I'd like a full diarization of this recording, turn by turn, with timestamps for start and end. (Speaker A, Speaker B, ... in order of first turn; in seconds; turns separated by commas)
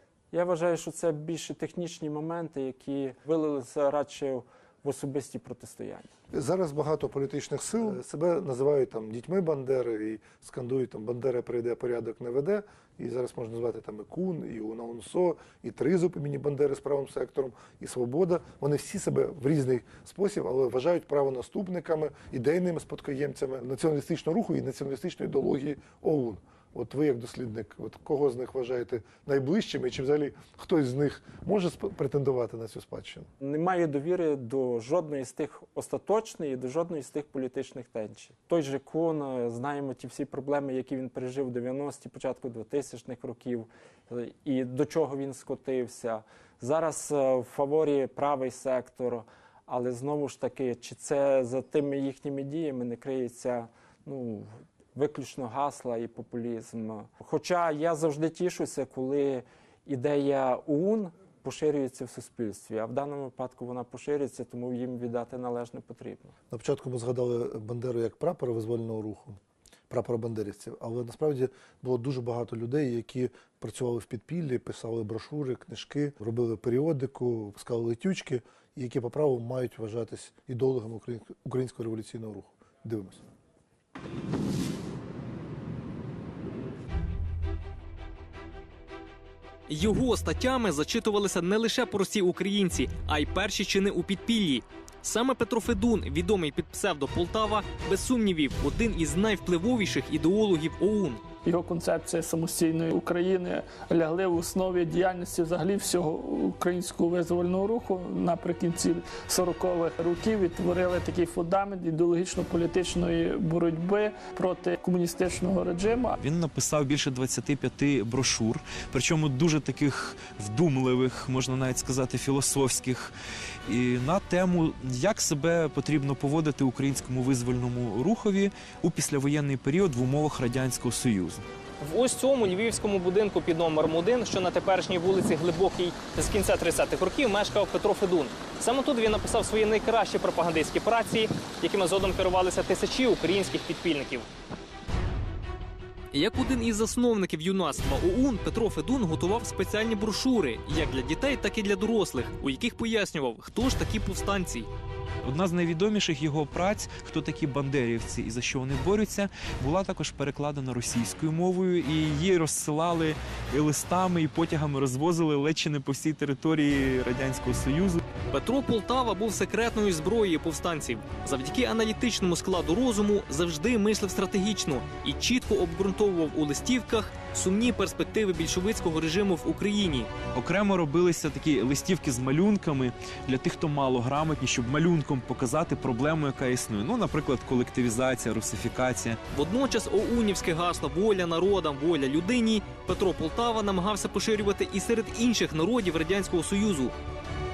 Speaker A: 0.3-6.1, Speaker B: 6.3-33.3, Speaker A: 33.4-66.3, Speaker B: 66.5-83.2, Speaker C: 89.7-101.2, Speaker D: 101.4-116.1, Speaker E: 116.2-123.1, Speaker E: 123.7-131.4, Speaker C: 131.8-144.3, Speaker C: 146.1-154.7, Speaker E: 155.2-168.0, Speaker C: 168.3-180.1, Speaker E: 180.3-189.2, Speaker C: 189.3-196.9